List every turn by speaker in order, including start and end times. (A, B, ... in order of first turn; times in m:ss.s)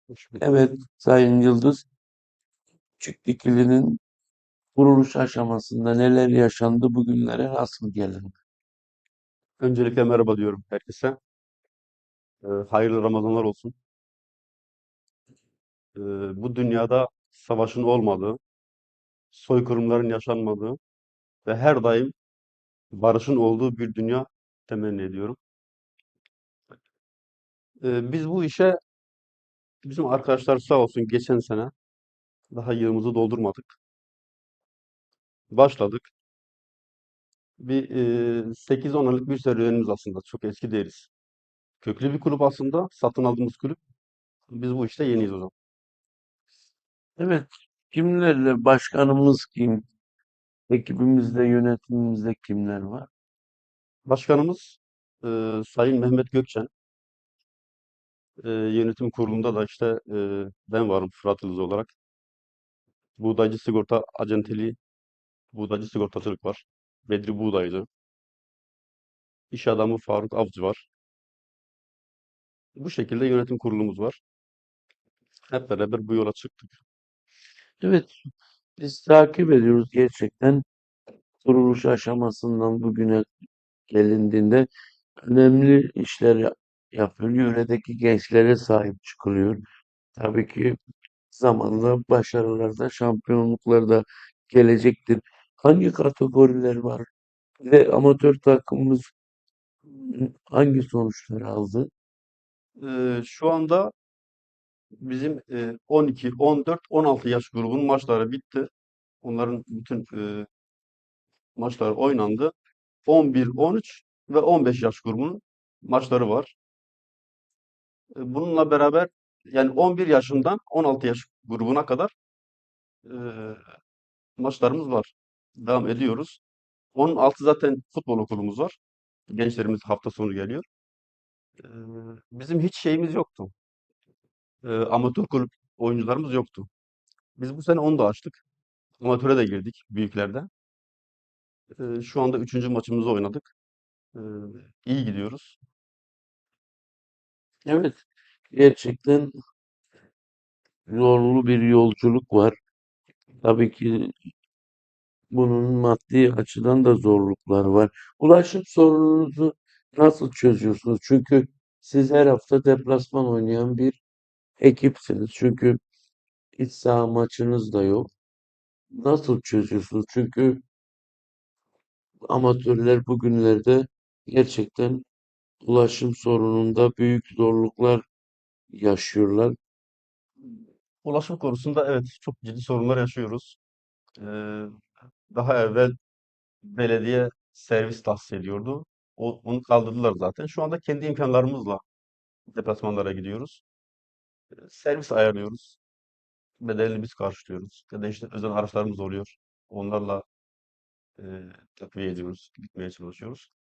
0:00.1-0:00.4 A
0:00.4-0:01.8 B
0:03.0-0:04.0 B
0:04.7-0:08.3 B
0:09.6-0:11.2 A
0:12.4-0:13.8 A
0:15.9-0:18.4 A
0:19.3-0:20.8 A
0:21.4-0:22.1 A
0:22.9-0:25.4 A
0:27.8-0:28.8 A
0:29.8-0:31.7 A
0:32.5-0:33.8 A
0:35.5-0:36.1 A
0:37.6-0:41.1 A
0:41.8-0:43.8 A
0:44.5-0:45.5 A
0:47.2-0:49.8 B
0:50.7-0:53.1 B
0:54.0-0:56.7 A
0:58.4-1:01.9 A
1:03.2-1:04.8 A
1:05.5-1:07.9 A
1:09.5-1:10.9 A
1:12.8-1:14.2 A
1:15.5-1:16.8 A
1:17.8-1:18.1 B
1:18.8-1:20.6 B
1:21.4-1:23.3 B
1:23.9-1:24.7 B
1:25.2-1:29.6 B
1:30.1-1:30.8 B
1:31.3-1:37.0 B
1:37.6-1:39.1 B
1:39.9-1:41.9 B
1:42.8-1:43.9 A
1:45.0-1:48.7 A
1:49.2-1:50.5 A
1:51.6-1:52.5 A
1:53.1-1:56.6 A
1:58.2-2:02.1 A
2:03.0-2:03.6 A
2:04.4-2:06.4 A
2:06.9-2:08.8 A
2:09.3-2:10.6 A
2:11.6-2:13.5 A
2:14.6-2:16.7 A
2:17.4-2:18.4 A
2:19.0-2:20.5 A
2:21.8-2:23.5 A
2:24.1-2:25.6 A
2:27.6-2:29.3 B
2:30.9-2:32.6 B
2:33.4-2:34.2 B
2:35.3-2:44.0 B
2:44.6-2:45.8 B
2:46.6-2:48.1 B
2:48.9-2:50.6 B
2:52.3-2:55.0 B
2:55.6-2:58.0 B
2:58.7-2:59.5 B
3:01.0-3:03.6 A
3:04.2-3:05.9 A
3:06.6-3:11.8 A
3:12.5-3:13.6 A
3:14.5-3:15.8 A
3:16.6-3:20.2 A
3:21.2-3:23.5 A